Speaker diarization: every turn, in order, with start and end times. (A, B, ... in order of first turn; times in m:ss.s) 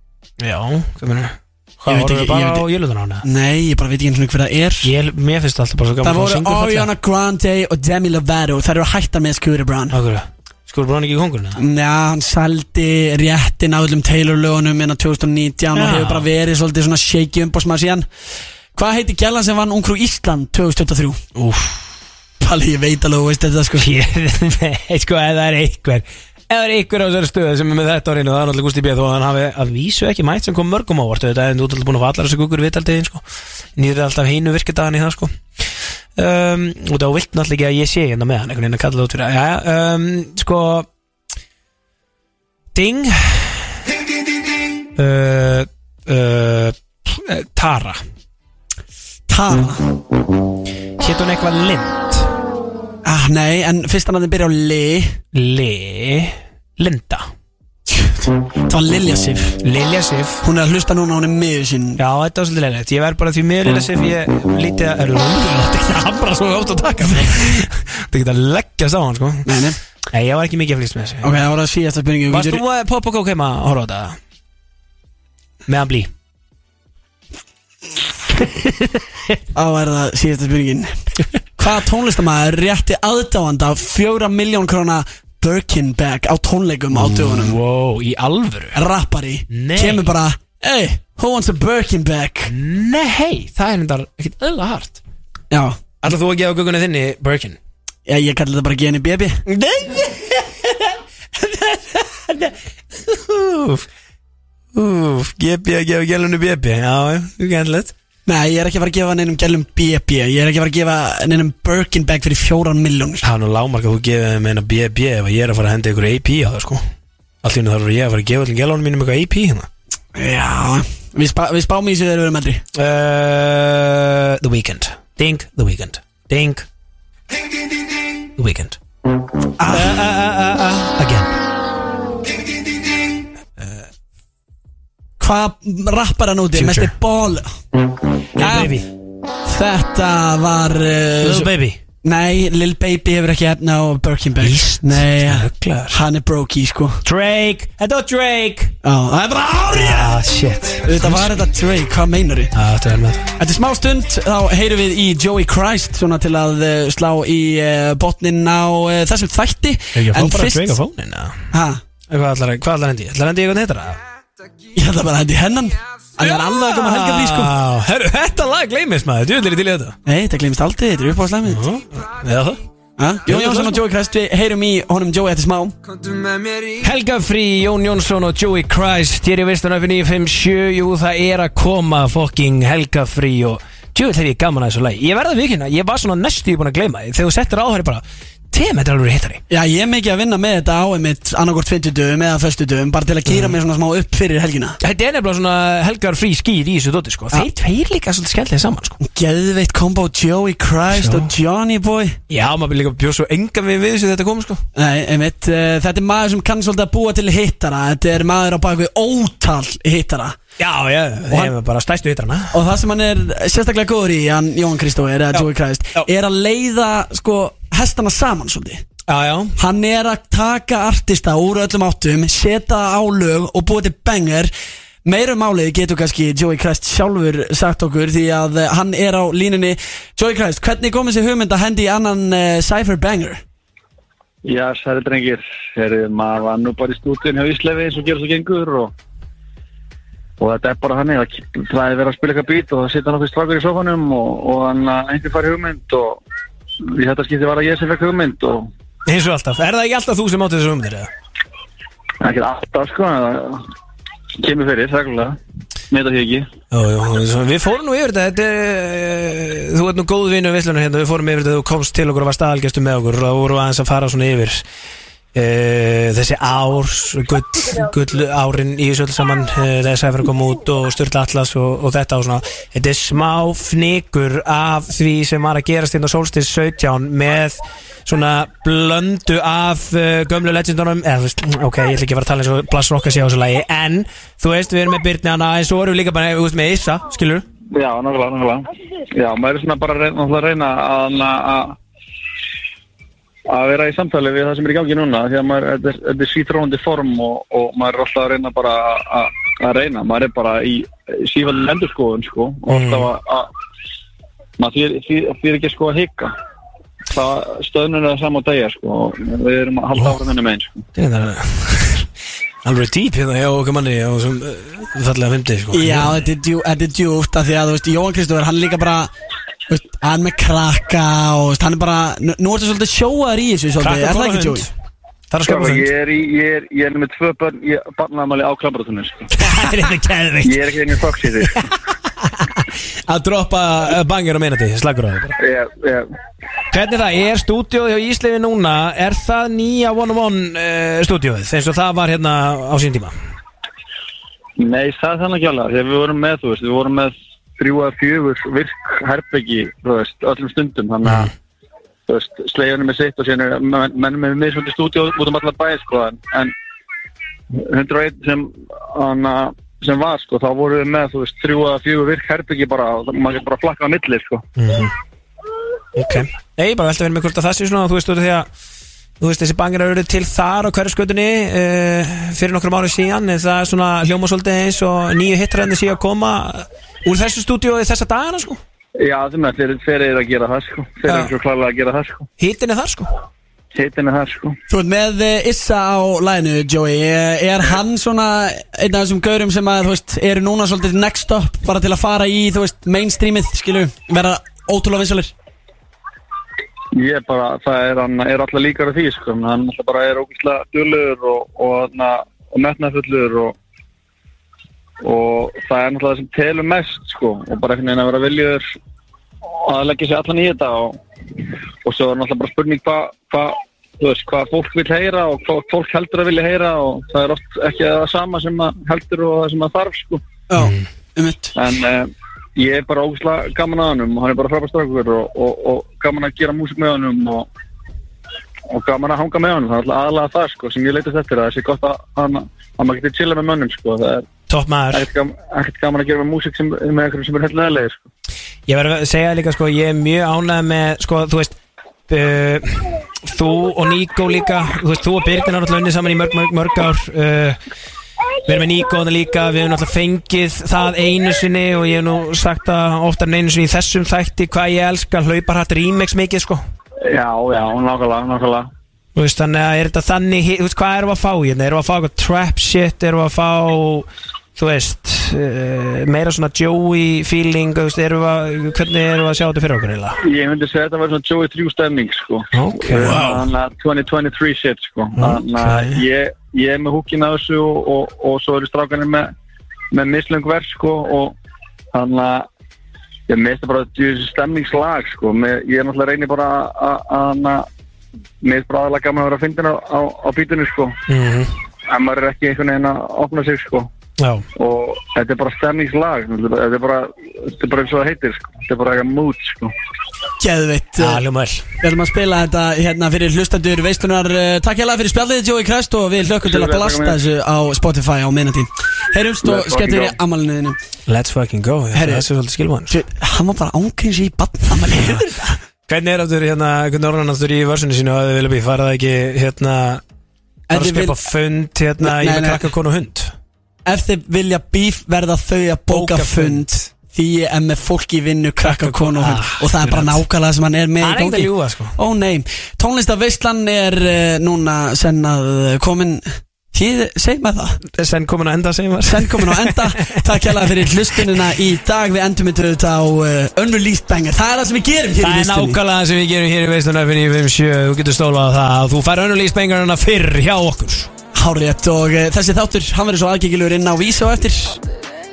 0:00.4-0:03.2 A
0:01.9-0:02.6 B
0:03.2-0:04.9 B
0:04.8-0:06.9 A
0:06.0-0:09.9 B
0:09.9-0:11.6 A
0:11.6-0:18.0 B
0:15.7-0:16.3 A
0:18.7-0:21.2 B
0:21.4-0:21.9 A
0:22.4-0:23.9 B
0:23.8-0:33.2 A
0:33.8-0:35.3 A
0:36.2-0:40.9 A
0:42.7-0:43.8 A
0:45.0-0:48.0 A
0:49.3-0:49.8 B
0:51.0-0:52.3 A
0:53.0-0:55.2 B
0:55.3-0:57.3 A
0:57.9-0:59.6 B
0:59.6-1:00.4 A
1:00.4-1:02.0 B
1:02.0-1:09.6 A
1:09.4-1:09.8 B
1:10.1-1:11.4 A
1:11.2-1:12.6 B
1:12.3-1:14.2 A
1:15.6-1:16.1 A
1:18.4-1:19.4 A
1:19.5-1:20.9 B
1:21.6-1:27.6 B
1:26.9-1:28.8 A
1:28.7-1:32.5 B
1:29.5-1:30.1 A
1:32.4-1:35.0 A
1:35.5-1:35.8 B
1:36.0-1:37.6 A
1:38.0-1:39.4 B
1:39.5-1:43.8 A
1:44.7-1:47.9 A
1:48.2-1:53.2 B
1:53.2-1:56.8 A
1:57.4-1:59.7 A
2:00.1-2:02.6 B
2:02.7-2:06.6 A
2:08.4-2:08.8 A
2:09.6-2:10.1 B
2:09.7-2:11.3 A
2:13.6-2:13.9 A
2:15.2-2:17.5 B
2:16.5-2:16.9 A
2:18.4-2:18.8 B
2:18.4-2:18.9 A
2:19.4-2:21.5 B
2:21.2-2:21.8 A
2:22.0-2:27.0 B
2:24.4-2:26.0 A
2:27.0-2:28.7 A
2:28.8-2:30.2 B
2:29.7-2:31.4 A
2:30.8-2:32.5 B
2:32.5-2:33.3 A
2:33.4-2:40.8 B
2:39.9-2:41.5 A
2:41.5-2:41.8 B
2:42.1-2:44.0 A
2:44.7-2:47.6 B
2:46.2-2:49.9 A
2:50.0-2:51.6 B
2:51.5-2:52.6 A
2:53.0-2:55.8 B
2:53.2-2:53.8 A
2:56.6-3:09.4 A
3:09.5-3:14.8 B
3:13.3-3:13.6 A
3:14.8-3:19.0 A
3:19.0-3:22.2 B
3:20.9-3:21.3 A
3:22.3-3:24.6 A
3:24.8-3:30.4 B
3:30.6-3:32.6 A
3:31.3-3:31.5 B
3:32.5-3:38.8 B
3:35.3-3:36.1 A
3:39.1-3:39.5 A
3:39.6-3:44.5 B
3:45.0-3:53.4 B
3:54.4-3:58.9 C
4:00.4-4:06.2 C
4:06.9-4:08.7 C
4:09.1-4:11.1 A
4:12.2-4:13.6 C
4:14.4-4:15.4 C
4:15.9-4:16.5 C
4:16.7-4:24.6 A
4:25.3-4:47.4 A
4:47.7-4:51.8 C
4:53.5-5:03.5 C
5:02.7-5:03.1 A
5:04.6-5:06.3 C
5:07.1-5:10.8 C
5:11.0-5:12.1 A
5:12.6-5:16.2 A
5:15.7-5:19.1 B
5:19.7-5:24.7 B
5:23.8-5:24.7 A
5:25.3-5:25.9 A
5:25.4-5:29.4 C
5:29.3-5:30.6 A
5:30.4-5:31.5 C
5:31.4-5:35.4 A
5:35.4-5:36.1 C
5:36.7-5:43.1 A
5:44.6-5:51.3 C
5:52.1-5:56.5 C
5:57.5-6:04.4 C
6:04.6-6:04.9 A
6:06.0-6:08.5 A
6:09.2-6:18.6 A
6:19.0-6:22.3 C
6:21.1-6:21.3 A
6:22.4-6:23.1 A
6:23.7-6:24.6 C
6:24.7-6:35.3 B
6:36.9-6:43.6 C
6:45.0-6:48.6 C
6:49.6-6:51.0 C
6:51.8-7:00.2 C
7:00.5-7:01.5 B
7:00.6-7:00.9 A
7:01.6-7:07.4 C
7:08.7-7:14.3 C
7:14.5-7:15.0 A
7:14.9-7:18.0 C
7:18.7-7:21.5 A
7:22.1-7:27.6 A
7:28.4-7:36.6 A
7:37.0-7:38.7 C
7:39.2-7:50.2 A
7:50.2-7:59.3 C
7:52.5-7:53.4 A
7:55.2-7:56.0 A
7:59.9-8:01.3 C
8:01.9-8:02.5 C
8:03.3-8:07.6 C
8:08.4-8:11.0 C
8:11.1-8:11.5 A
8:11.9-8:13.9 C
8:14.2-8:14.4 A
8:14.6-8:19.7 C
8:20.4-8:21.2 B
8:21.0-8:21.6 A
8:21.8-8:30.8 B
8:26.4-8:27.2 C
8:29.4-8:30.1 C
8:31.1-8:33.0 A
8:31.9-8:32.2 B
8:32.9-8:35.5 B
8:35.0-8:40.0 A
8:40.7-8:41.2 B
8:40.7-8:43.3 A
8:42.0-8:42.7 B
8:43.8-8:57.8 B
8:45.9-8:46.8 A
8:48.6-8:50.2 A
8:51.0-8:52.0 A
8:57.8-9:00.8 A
8:59.0-9:05.8 B
9:05.2-9:11.1 A
9:11.3-9:14.8 B